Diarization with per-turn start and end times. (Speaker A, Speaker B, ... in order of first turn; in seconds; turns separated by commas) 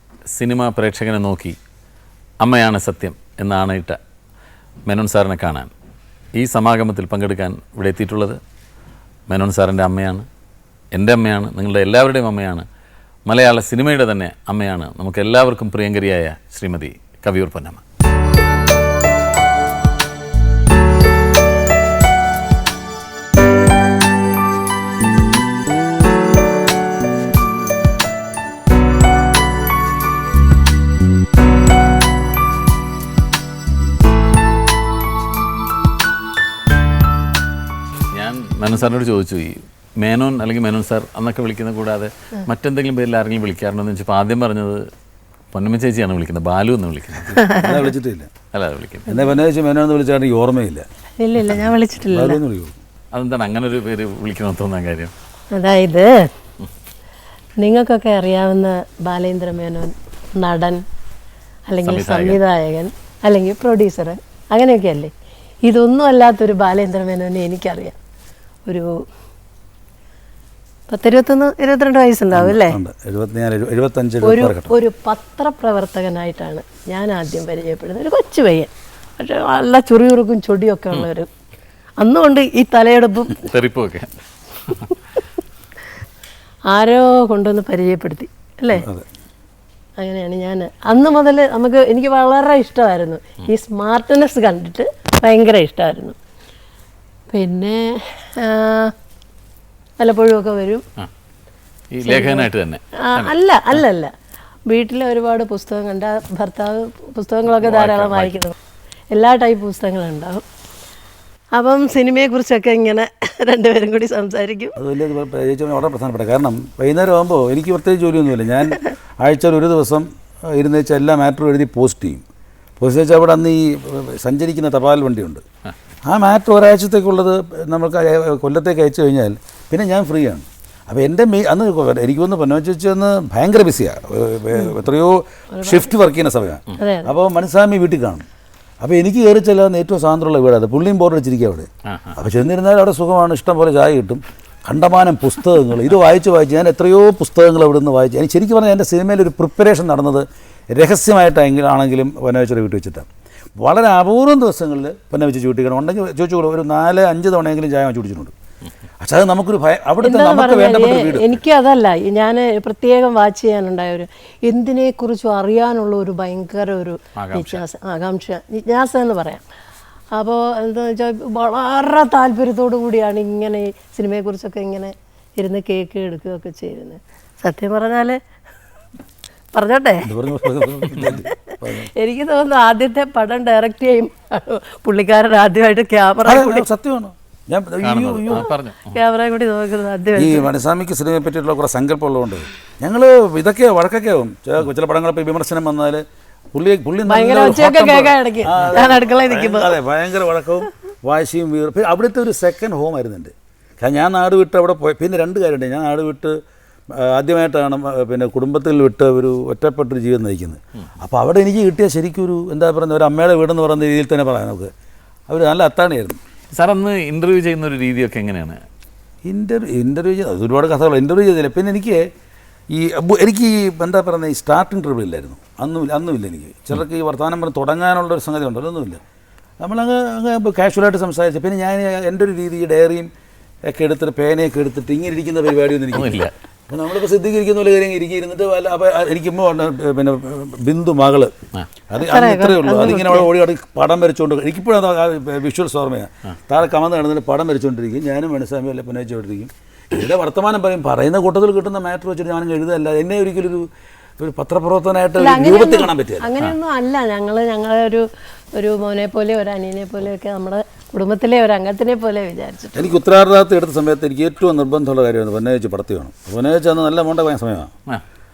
Speaker A: 0.3-1.6, Speaker A: 2.4-4.0, Speaker A: 4.9-5.7, Speaker A: 6.3-8.4, Speaker A: 9.3-10.2, Speaker A: 10.9-12.6, Speaker A: 13.3-17.8, Speaker A: 38.1-44.8, Speaker A: 45.5-47.5, Speaker B: 47.4-47.8, Speaker C: 47.6-48.3, Speaker A: 48.5-49.1, Speaker C: 49.1-50.9, Speaker B: 51.2-52.4, Speaker C: 52.1-52.7, Speaker A: 53.1-55.1, Speaker B: 55.5-56.3, Speaker B: 57.6-60.8, Speaker B: 61.7-65.1, Speaker A: 61.8-62.4, Speaker B: 65.6-68.0, Speaker B: 68.7-68.9, Speaker B: 70.9-72.8, Speaker C: 72.3-74.7, Speaker B: 74.2-81.3, Speaker B: 82.0-83.5, Speaker A: 83.3-84.1, Speaker B: 86.7-88.9, Speaker C: 88.7-89.0, Speaker B: 90.0-96.1, Speaker B: 97.3-98.9, Speaker B: 100.0-100.8, Speaker A: 101.9-103.8, Speaker B: 102.0-102.5, Speaker B: 103.0-104.1, Speaker B: 104.7-108.5, Speaker A: 107.6-108.3, Speaker B: 109.1-110.4, Speaker B: 111.5-114.8, Speaker C: 114.8-122.2, Speaker C: 122.8-125.4, Speaker C: 126.0-138.2, Speaker B: 135.5-135.9, Speaker B: 136.8-137.1, Speaker C: 138.8-158.3, Speaker A: 141.9-142.2, Speaker C: 159.0-161.4, Speaker B: 160.0-169.4, Speaker A: 167.2-167.6, Speaker B: 170.1-178.2, Speaker B: 179.5-181.3, Speaker C: 180.0-181.9, Speaker B: 181.9-186.7, Speaker C: 186.2-188.5, Speaker A: 187.8-189.0, Speaker B: 188.3-190.5, Speaker C: 190.1-206.4, Speaker B: 197.1-199.8, Speaker C: 206.9-214.7, Speaker C: 215.3-216.2, Speaker A: 216.5-218.6, Speaker C: 219.2-222.0, Speaker C: 222.7-229.0, Speaker C: 229.6-233.1, Speaker C: 233.7-241.3, Speaker A: 235.9-236.3, Speaker C: 241.9-253.7, Speaker B: 241.9-243.3, Speaker C: 254.2-256.3, Speaker B: 255.2-262.9, Speaker C: 262.7-267.7